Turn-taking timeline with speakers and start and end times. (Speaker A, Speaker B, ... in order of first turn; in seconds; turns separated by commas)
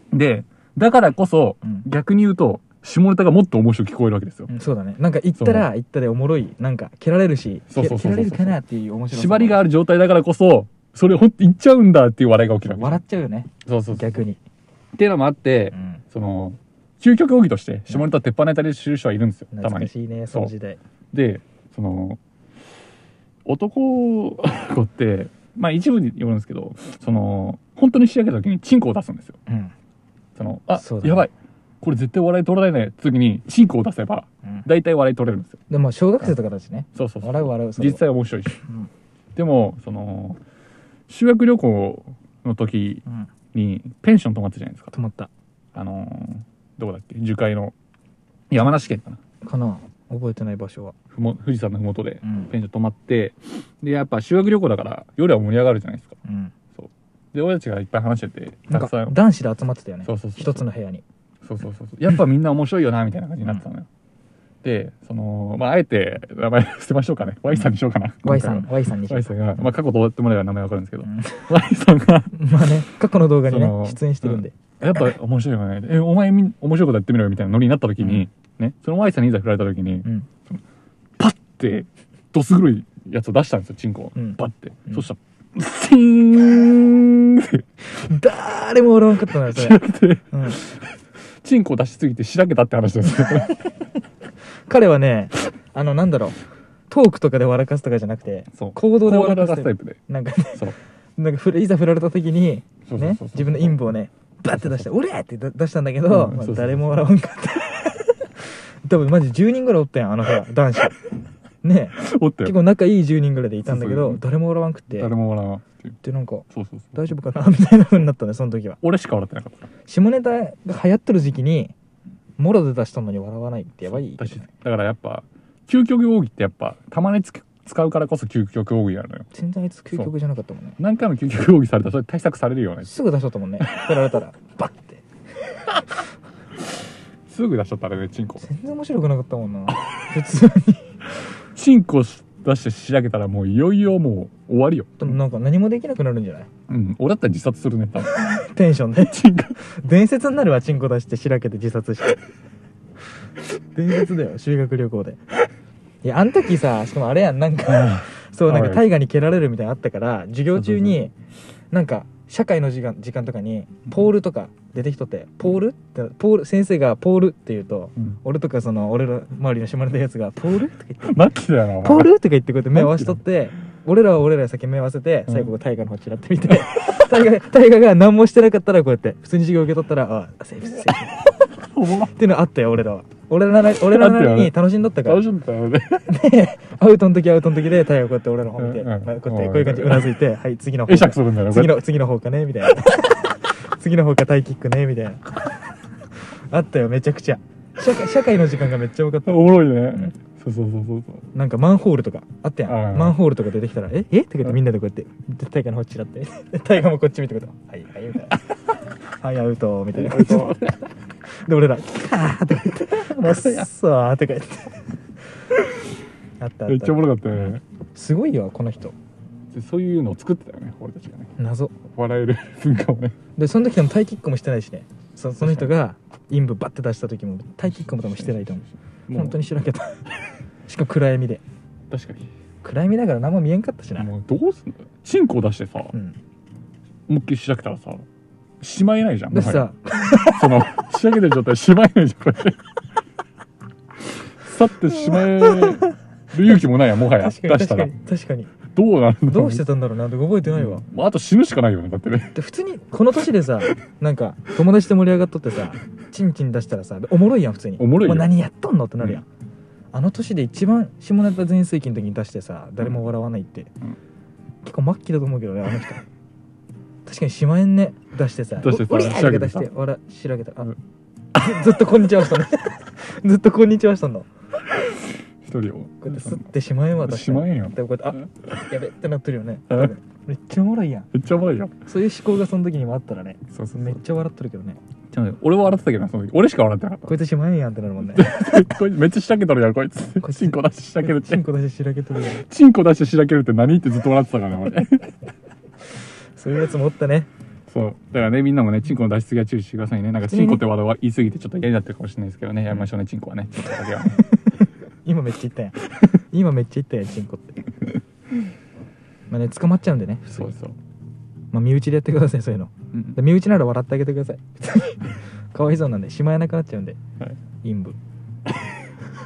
Speaker A: 0.1-4.5, Speaker B: 4.5-9.7, Speaker A: 5.4-5.7, Speaker A: 7.7-8.6, Speaker A: 9.1-13.0, Speaker B: 12.7-14.4, Speaker A: 13.7-14.2, Speaker A: 15.0-20.5, Speaker B: 15.7-16.0, Speaker B: 19.5-20.8, Speaker A: 21.1-22.2, Speaker A: 23.5-29.4, Speaker B: 29.5-29.7, Speaker A: 30.4-35.6, Speaker B: 30.8-31.3, Speaker B: 35.7-38.0, Speaker A: 37.0-38.6, Speaker B: 38.6-38.9, Speaker A: 39.4-40.4, Speaker A: 41.1-43.0, Speaker A: 43.5-44.9, Speaker B: 44.9-45.3, Speaker A: 45.8-47.7, Speaker A: 48.5-49.2, Speaker B: 49.4-51.0, Speaker A: 51.1-56.2, Speaker B: 52.2-52.5, Speaker B: 56.2-56.5, Speaker A: 56.8-59.1, Speaker B: 58.7-61.0, Speaker A: 60.0-60.6, Speaker A: 61.4-63.9, Speaker A: 64.6-72.4, Speaker B: 68.2-69.4, Speaker B: 71.0-71.5, Speaker B: 72.3-74.5, Speaker A: 73.5-80.6, Speaker A: 81.2-87.7, Speaker B: 84.2-85.0, Speaker B: 87.9-90.6, Speaker A: 89.5-90.8, Speaker A: 91.4-93.7, Speaker B: 94.7-96.4, Speaker B: 96.9-111.0, Speaker A: 98.5-100.0, Speaker A: 102.9-103.8, Speaker A: 106.1-107.0, Speaker B: 111.6-115.1, Speaker A: 112.0-112.5, Speaker A: 113.7-114.2, Speaker A: 115.0-116.0, Speaker B: 116.0-118.8, Speaker A: 116.5-117.0, Speaker A: 118.8-119.7, Speaker B: 119.9-121.7, Speaker B: 122.4-124.5, Speaker A: 123.9-129.3, Speaker B: 129.3-130.8, Speaker A: 130.8-132.9, Speaker B: 132.9-135.0, Speaker A: 133.6-133.9, Speaker A: 137.3-138.5, Speaker B: 138.4-141.0, Speaker A: 141.6-145.1, Speaker B: 145.0-146.5, Speaker A: 146.7-148.4, Speaker B: 148.1-152.2, Speaker A: 149.0-149.6, Speaker B: 153.7-155.2, Speaker B: 156.0-161.1, Speaker A: 157.7-158.8, Speaker B: 161.7-171.2, Speaker A: 171.0-172.1, Speaker B: 171.8-181.2, Speaker A: 172.7-173.2, Speaker A: 181.6-182.2, Speaker B: 182.1-185.2, Speaker A: 183.8-186.1, Speaker B: 186.1-195.3, Speaker A: 188.6-190.1, Speaker A: 190.9-191.8, Speaker B: 196.5-199.5, Speaker A: 199.3-201.3, Speaker B: 201.3-208.4, Speaker A: 202.7-203.2, Speaker B: 209.2-210.6, Speaker A: 210.0-210.9, Speaker B: 211.4-214.8, Speaker A: 212.9-213.7, Speaker B: 216.4-218.9, Speaker A: 216.7-217.6, Speaker A: 219.5-221.3, Speaker B: 221.4-221.8, Speaker A: 221.8-223.2, Speaker B: 223.4-230.1, Speaker A: 225.4-225.7, Speaker A: 227.8-229.4, Speaker B: 230.7-231.4, Speaker A: 231.9-232.3, Speaker B: 232.6-234.1, Speaker A: 234.0-235.9, Speaker B: 235.9-236.2, Speaker A: 237.1-238.1, Speaker A: 238.6-239.7, Speaker B: 239.3-240.7, Speaker A: 240.2-242.6, Speaker A: 244.4-247.9, Speaker B: 245.2-245.8, Speaker B: 247.1-248.5, Speaker A: 248.7-249.6, Speaker B: 249.3-250.8, Speaker A: 250.5-252.3, Speaker B: 252.3-259.2, Speaker A: 257.8-258.3, Speaker B: 259.9-263.7, Speaker B: 264.6-266.0, Speaker B: 267.1-270.7, Speaker A: 268.6-269.7, Speaker B: 271.3-274.3, Speaker A: 275.4-276.5, Speaker B: 276.0-281.1, Speaker A: 277.0-278.6, Speaker A: 281.1-281.8, Speaker B: 281.9-284.8, Speaker A: 283.5-284.0, Speaker A: 285.1-287.1, Speaker B: 287.1-288.4, Speaker A: 288.1-291.4, Speaker B: 290.2-292.4, Speaker A: 292.4-295.1, Speaker B: 296.4-297.3, Speaker A: 297.7-304.2, Speaker B: 300.3-300.6, Speaker B: 305.1-307.7, Speaker B: 309.3-310.6, Speaker A: 310.4-310.8, Speaker B: 311.5-317.0, Speaker B: 317.6-318.0